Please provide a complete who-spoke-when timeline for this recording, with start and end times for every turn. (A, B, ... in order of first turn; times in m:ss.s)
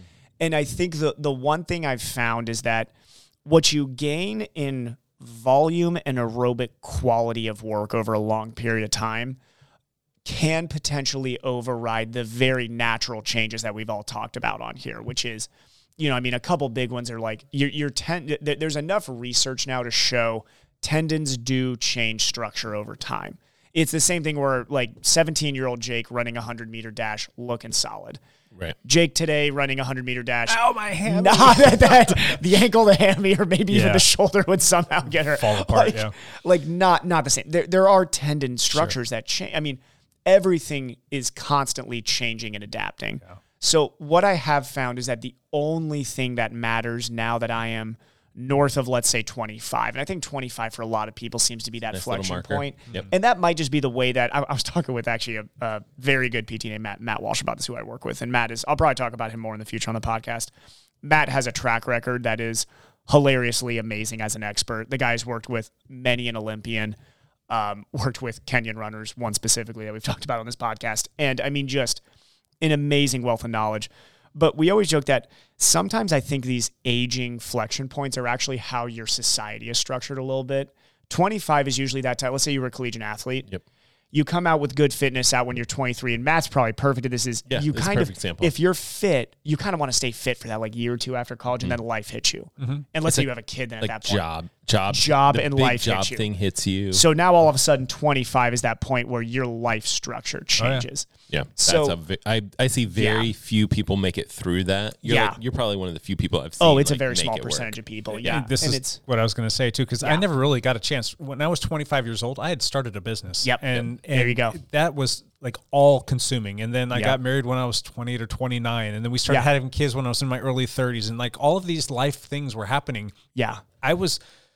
0:00.4-0:02.9 A
0:03.4-0:09.4 A
0:10.2-0:28.2 A
0:28.8-1:00.5 A
0:30.5-0:32.4 B
0:33.7-0:34.1 B
0:35.2-0:36.1 B
0:38.7-0:39.0 B
0:51.9-0:53.1 C
1:01.0-1:07.0 A
1:07.5-1:12.0 A
1:12.6-1:23.5 A
1:24.1-1:34.2 A
1:27.5-1:28.5 C
1:32.6-1:32.9 B
1:33.0-1:37.0 C
1:34.9-1:36.2 A
1:36.9-1:41.9 A
1:40.6-1:40.9 B
1:41.3-1:48.4 C
1:43.0-1:43.3 A
1:45.0-1:45.4 A
1:46.6-1:49.0 A
1:48.2-2:03.1 B
1:53.4-1:54.6 A
2:03.3-2:03.6 A
2:03.8-2:04.2 B